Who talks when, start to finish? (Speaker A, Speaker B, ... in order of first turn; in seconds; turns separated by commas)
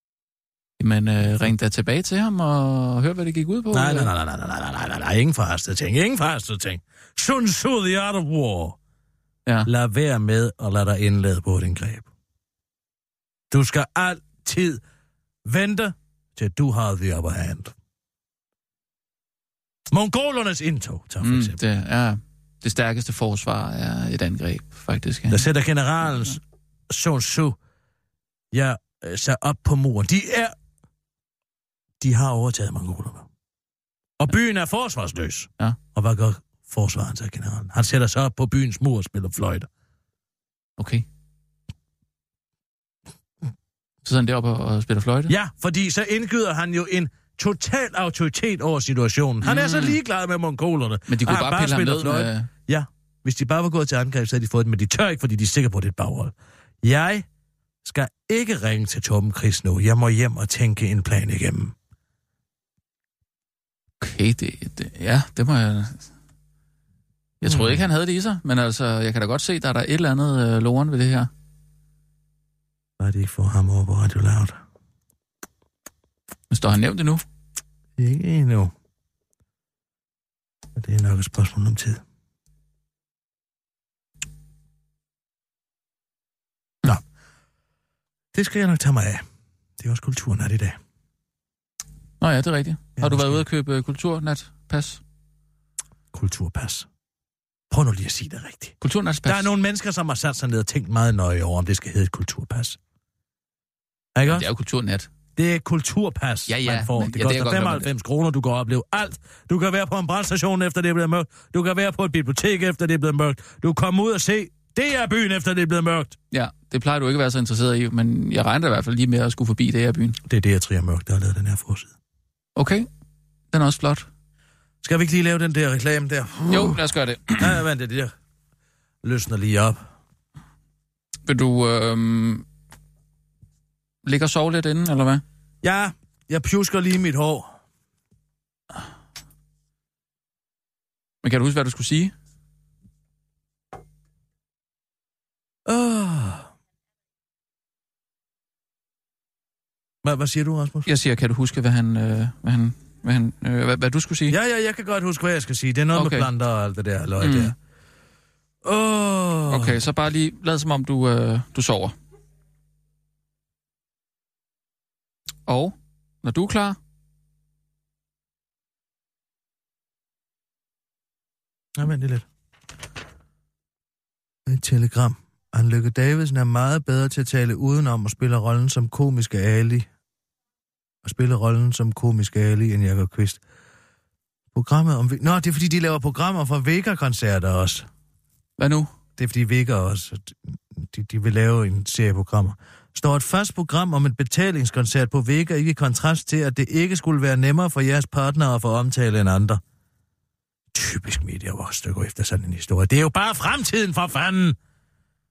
Speaker A: 0.8-4.1, Speaker B: 3.7-8.8, Speaker B: 9.7-12.1, Speaker B: 13.5-14.8, Speaker B: 15.4-17.7, Speaker B: 19.9-21.6, Speaker A: 21.2-25.5, Speaker B: 25.3-27.6, Speaker B: 28.5-30.5, Speaker B: 32.0-33.3, Speaker B: 34.2-39.7, Speaker A: 40.8-41.0, Speaker A: 44.0-45.3, Speaker B: 45.3-57.2, Speaker A: 49.4-50.0, Speaker A: 51.1-52.5, Speaker B: 57.8-61.7, Speaker A: 64.0-66.1, Speaker A: 67.4-71.3, Speaker B: 67.4-67.8, Speaker B: 73.0-74.6, Speaker A: 76.5-77.2, Speaker B: 78.0-78.7, Speaker B: 80.8-82.0, Speaker B: 88.3-89.2, Speaker B: 89.8-90.8, Speaker A: 92.2-95.0, Speaker B: 93.0-93.4, Speaker B: 96.1-96.9, Speaker B: 97.7-102.8, Speaker A: 98.8-99.5, Speaker B: 104.1-104.5, Speaker A: 104.3-105.1, Speaker B: 105.3-116.2, Speaker A: 106.5-107.9, Speaker A: 116.3-120.2, Speaker B: 120.3-121.9, Speaker A: 122.5-122.9, Speaker A: 123.5-124.1, Speaker B: 124.8-126.8, Speaker A: 126.5-127.6, Speaker B: 127.4-128.1, Speaker B: 129.0-129.8, Speaker A: 131.2-132.4, Speaker A: 134.0-135.2, Speaker B: 135.6-137.5, Speaker A: 141.2-142.1, Speaker B: 145.7-146.5, Speaker B: 150.0-150.9, Speaker A: 150.8-154.3, Speaker B: 154.3-157.5, Speaker A: 155.9-156.3, Speaker A: 157.2-157.5, Speaker B: 158.6-159.8, Speaker A: 159.5-161.9, Speaker A: 165.5-166.8, Speaker B: 171.8-172.2, Speaker B: 174.4-179.9, Speaker B: 181.0-183.4, Speaker B: 184.5-187.9, Speaker A: 188.6-188.9, Speaker B: 189.2-199.6, Speaker B: 200.7-204.6